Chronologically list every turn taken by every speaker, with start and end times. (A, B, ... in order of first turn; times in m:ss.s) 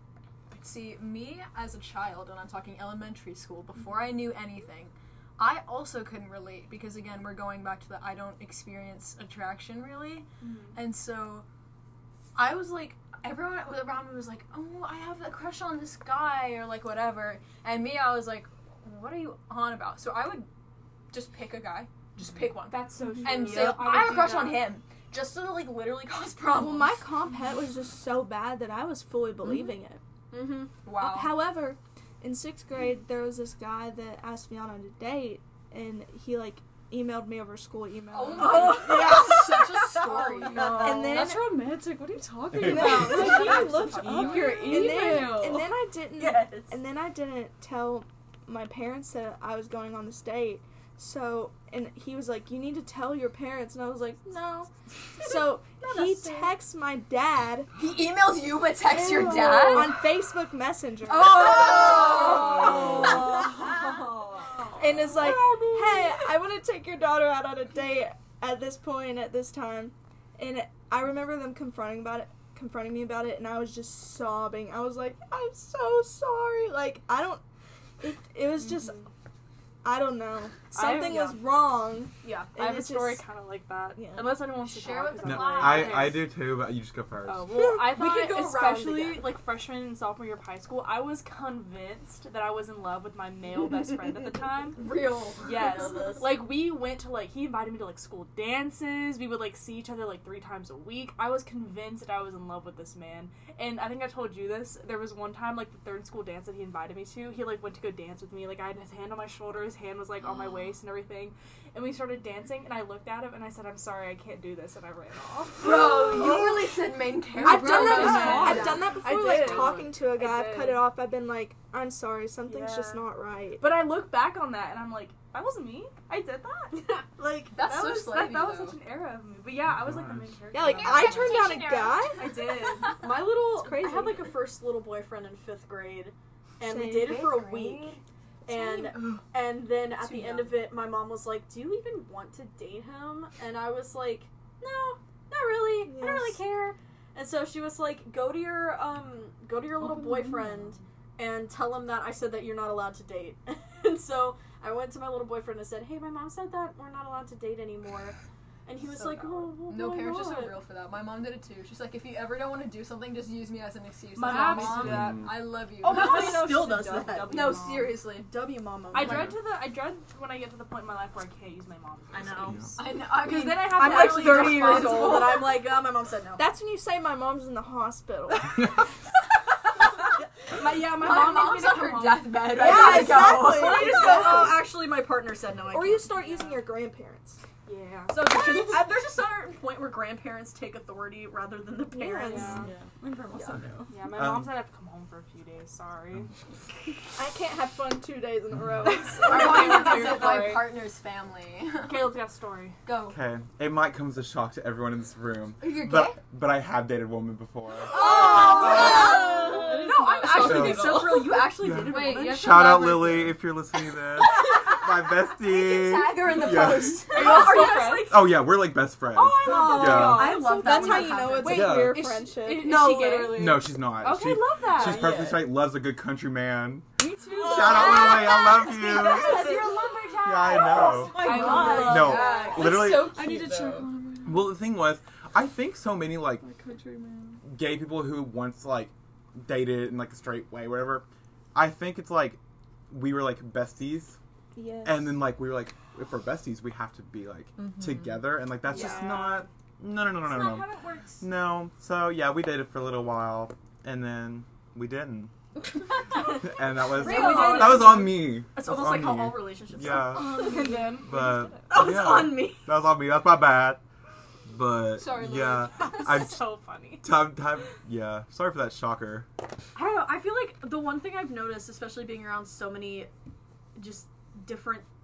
0:00.5-0:11.5 A
0:10.4-0:10.8 B
0:12.4-0:20.5 A
0:21.1-0:27.0 A
0:22.6-0:24.7 B
0:26.5-0:30.0 C
0:30.3-0:30.7 D
0:30.8-0:31.4 A
0:31.0-0:39.6 C
0:38.1-0:41.0 A
0:38.4-0:41.1 D
0:40.1-0:40.9 B
0:40.7-0:41.6 C
0:40.8-0:43.3 E
0:42.6-0:57.7 C
0:42.7-0:44.8 B
0:42.7-0:43.4 F
0:43.2-0:44.5 A
0:44.0-0:45.2 F
0:44.1-0:45.6 E
0:46.2-0:46.8 D
0:56.0-0:56.5 A
0:57.8-1:00.0 A
0:59.0-1:03.6 C
0:59.3-0:59.9 E
1:01.1-1:04.8 D
1:01.1-1:03.6 A
1:04.8-1:17.4 C
1:18.0-1:19.1 C
1:18.7-1:19.0 B
1:19.8-1:23.2 C
1:20.7-1:21.4 B
1:22.5-1:26.4 B
1:24.0-1:24.4 C
1:24.6-1:26.1 A
1:25.2-1:27.6 G
1:27.3-1:34.9 B
1:27.5-1:28.0 C
1:27.9-1:29.2 D
1:34.8-1:35.4 A
1:35.2-1:36.3 D
1:35.4-1:56.4 B
1:55.6-1:58.9 A
1:57.4-2:03.7 C
1:57.4-2:00.9 B
1:57.7-1:58.6 E
2:02.5-2:03.1 B
2:03.6-2:06.9 B
2:07.5-2:08.8 A
2:07.6-2:11.4 B
2:09.6-2:10.4 G
2:10.5-2:12.2 C
2:10.8-2:12.1 A
2:12.2-2:13.0 B
2:13.0-2:40.6 D
2:13.5-2:14.4 C
2:16.6-2:17.2 C
2:16.9-2:18.0 A
2:20.0-2:20.7 A
2:25.8-2:26.4 C
2:39.6-2:48.3 A
2:44.2-2:45.2 B
2:44.8-2:45.5 G
2:45.8-2:47.9 B
2:45.8-2:49.4 D
2:48.9-2:55.4 B
2:52.1-2:52.6 D
2:52.8-2:55.6 A
2:53.7-2:56.4 D
2:56.4-2:58.8 C
3:00.5-3:02.9 B
3:00.8-3:04.4 A
3:02.5-3:06.1 D
3:02.5-3:04.6 C
3:05.7-3:07.4 C
3:06.1-3:06.6 B
3:07.6-3:08.9 B
3:08.1-3:12.6 D
3:11.9-3:12.7 C
3:12.3-3:12.7 B
3:12.6-3:13.9 F
3:13.3-3:13.6 D
3:13.9-3:16.3 B
3:14.1-3:14.6 G
3:17.2-3:20.2 C
3:19.0-3:20.7 B
3:19.2-3:22.2 A
3:21.8-3:22.8 B
3:22.8-3:23.2 A
3:23.1-3:29.1 G
3:25.6-3:26.2 A
3:27.9-3:33.0 D
3:28.0-3:29.0 A
3:28.1-3:28.6 B
3:28.8-3:31.2 E
3:29.5-3:31.5 F
3:30.4-3:31.0 G
3:31.6-3:37.2 G
3:31.8-3:33.4 E
3:34.3-3:34.8 A
3:35.4-3:37.6 A
3:37.1-3:38.5 D
3:37.1-3:38.2 B
3:38.1-3:40.4 G
3:39.2-3:41.8 D
3:39.6-3:42.8 C
3:40.7-3:41.0 A
3:41.4-3:42.1 G
3:41.9-3:43.7 A
3:42.7-3:43.4 D
3:42.8-3:43.2 B
3:43.3-3:46.9 G
3:44.0-3:45.2 B
3:44.8-3:45.5 F
3:47.0-3:49.6 B
3:47.4-3:49.5 G
3:47.4-3:52.4 D
3:47.6-3:52.7 A
3:50.2-3:53.2 G
3:50.7-3:52.5 B
3:51.4-3:51.9 C
3:52.4-3:54.6 E
3:52.4-3:53.9 F
3:54.2-3:56.5 G
3:56.4-3:57.4 E
3:57.4-4:04.2 G
4:04.6-4:05.2 C
4:04.8-4:15.3 G
4:07.6-4:08.3 F
4:08.7-4:09.4 B
4:08.7-4:09.0 D
4:10.2-4:11.1 B
4:16.2-4:23.8 G
4:16.9-4:20.3 D
4:17.0-4:18.1 A
4:17.2-4:17.6 B
4:20.1-4:21.5 B
4:21.7-4:22.7 D
4:24.5-4:29.3 G
4:25.0-4:26.1 A
4:25.4-4:27.2 B
4:29.8-4:33.1 D
4:33.8-4:34.9 D